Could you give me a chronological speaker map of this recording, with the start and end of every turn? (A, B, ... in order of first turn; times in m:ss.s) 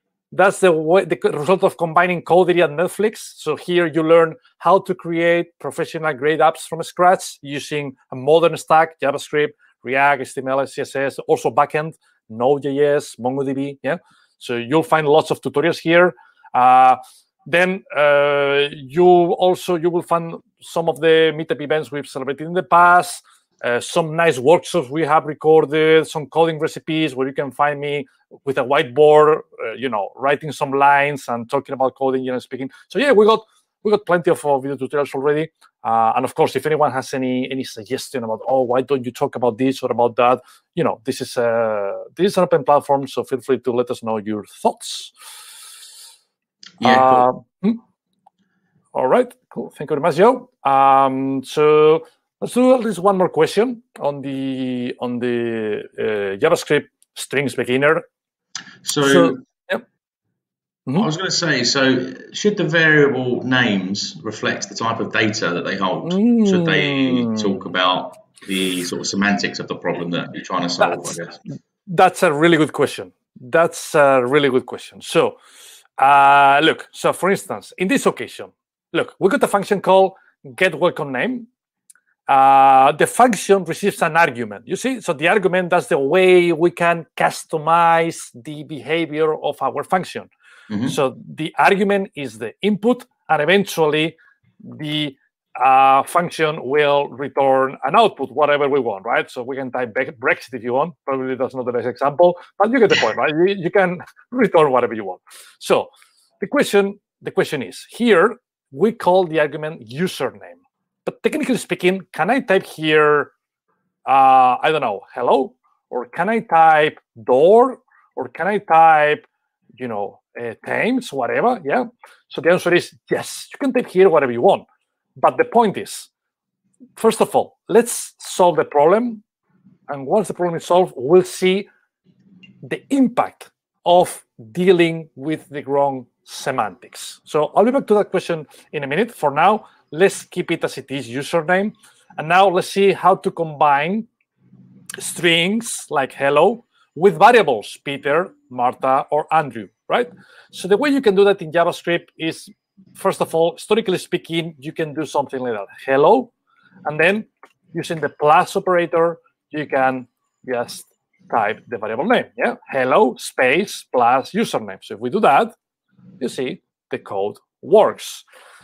0:00.3-0:45.1 A
0:46.8-0:47.3 B
0:46.8-0:47.8 A
0:48.9-0:58.0 A
0:58.8-0:59.4 B
0:59.0-0:59.8 A
1:01.0-1:11.4 B
1:06.0-1:07.6 A
1:10.8-1:11.2 A
1:11.9-1:15.4 A
1:16.0-1:21.5 A
1:22.3-1:30.3 A
1:30.7-1:31.0 B
1:30.8-1:53.3 A
1:54.1-1:59.3 A
1:59.8-2:04.6 A
2:05.2-2:06.1 A
2:07.0-2:09.2 A
2:09.9-2:11.7 A
2:12.6-2:24.1 A
2:25.0-2:36.3 A
2:36.9-2:45.5 A
2:46.2-2:48.2 A